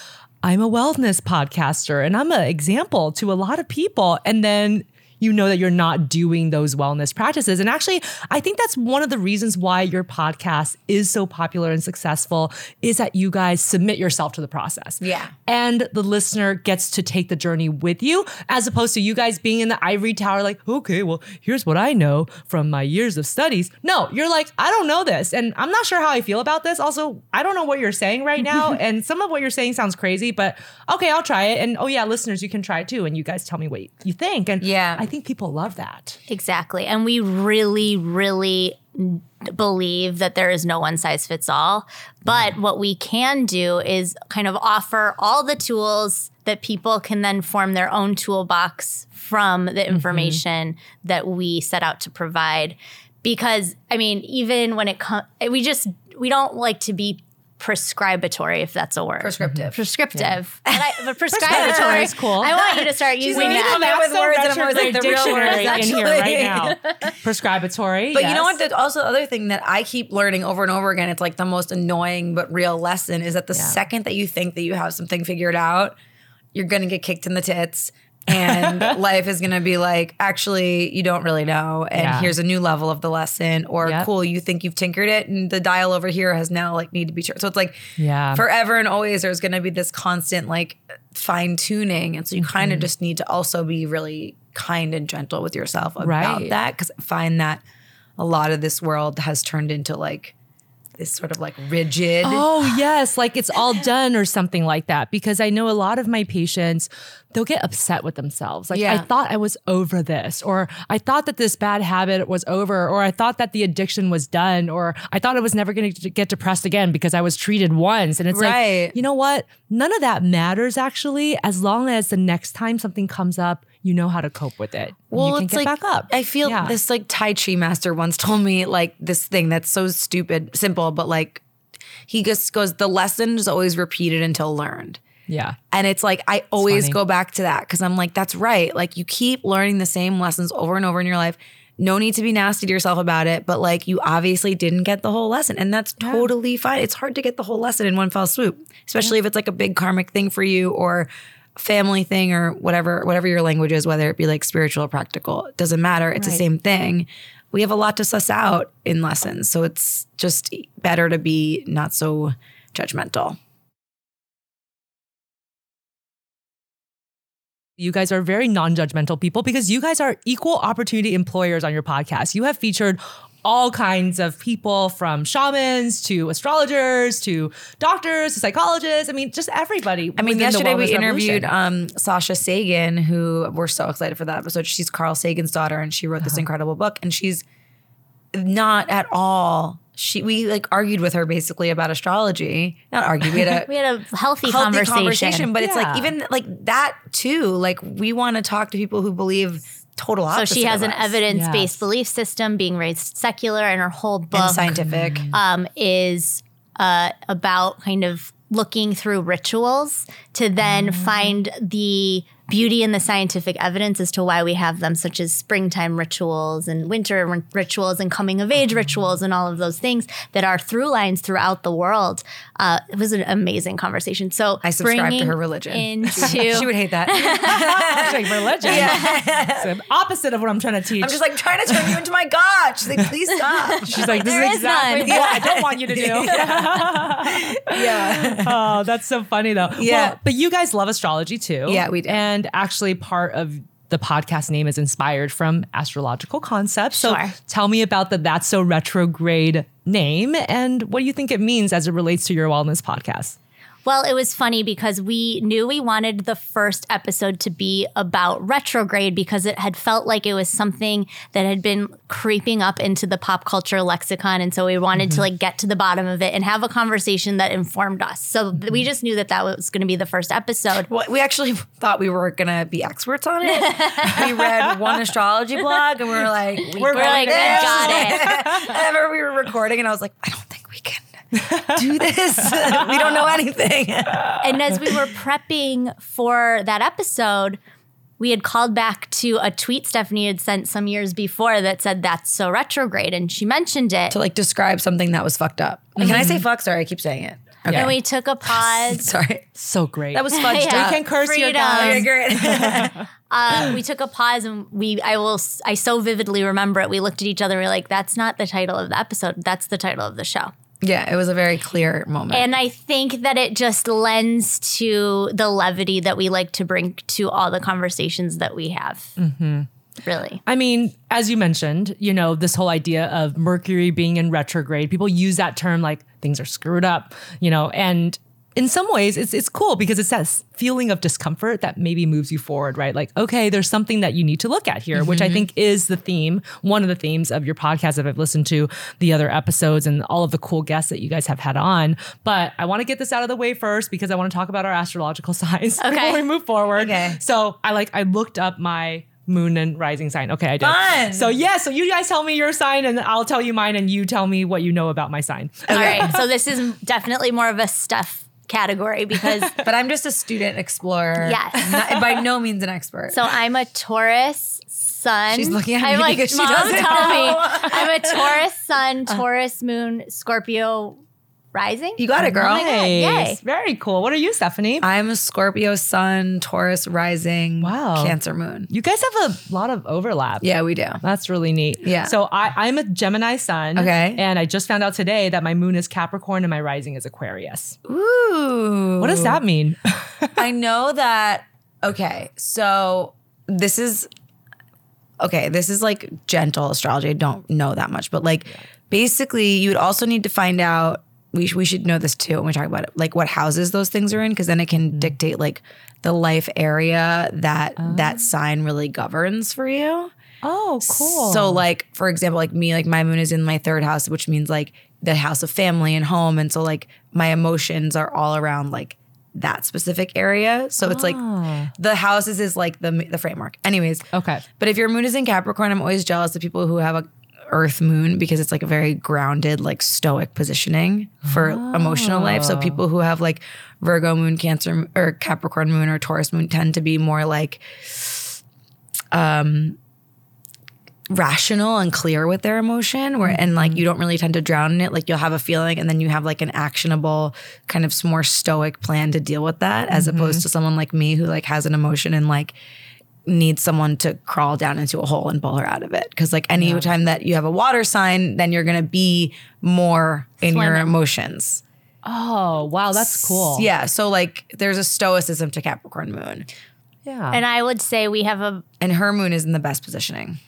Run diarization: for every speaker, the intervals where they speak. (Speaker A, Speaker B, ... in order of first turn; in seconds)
Speaker A: 0.4-36.2, 49.9-50.4, 59.4-60.3, 61.3-62.8, 63.3-68.6, 78.3-79.0, 82.0-82.3, 83.8-84.1, 88.0-88.4, 92.4-92.9, 96.0-96.5, 102.2-126.8, 135.3-135.6, 136.6-137.0, 146.0-146.3, 156.2-156.4, 167.8-181.5, 195.6-196.1, 201.3-201.8, 204.7-205.4, 210.6-211.4, 227.5-232.0, 233.8-253.4, 276.7-278.8, 281.4-281.8, 282.4-282.9, 296.0-296.4, 297.7-297.9, 299.6-303.1, 319.2-319.7, 320.5-356.2, 372.2-374.9, 377.6-378.2, 378.7-380.5, 381.0-387.8, 389.0-390.4, 407.8-408.2, 410.4-411.6, 420.8-421.7, 424.1-424.4, 431.2-432.8, 443.2-443.8, 449.9-450.4, 456.6-456.9, 462.1-463.7, 467.1-467.4
Speaker B: 15.0-15.3, 34.6-35.1, 59.2-59.8, 60.7-66.8, 68.1-76.0, 76.5-87.8, 88.3-97.6, 98.2-100.3, 101.0-102.8, 108.7-109.1, 118.3-119.0, 125.1-131.4, 132.1-135.0, 135.7-163.4, 180.2-187.4, 188.3-193.7, 194.4-201.2, 204.3-205.3, 224.6-229.7, 231.0-238.7, 239.7-240.2, 241.7-242.2, 270.9-284.4, 294.1-299.5, 300.1-301.1, 301.8-303.0, 310.8-312.5, 334.9-335.5, 346.8-347.2, 350.6-351.4, 355.7-356.1, 359.6-363.3, 365.3-368.4, 372.0-372.7, 374.8-378.7, 380.4-381.0, 381.8-382.1, 383.8-384.2, 387.9-389.4, 390.4-394.1, 395.2-410.1, 410.9-421.2, 421.7-438.4, 439.1-439.8, 441.1-452.6, 453.3-461.6, 463.0-466.5, 468.8-470.4
Speaker C: 36.3-63.9, 65.0-65.9, 193.7-195.5, 200.3-204.8, 205.3-229.2, 233.5-235.4, 246.9-247.3, 253.9-270.9, 273.5-274.3, 276.8-278.3, 284.4-287.6, 288.2-294.2, 297.7-299.1, 300.3-302.1, 303.3-310.5, 312.3-319.1, 320.0-320.4, 345.8-346.2, 355.7-359.6, 361.2-361.8, 363.1-371.0, 371.5-373.4, 460.4-460.9, 467.3-468.6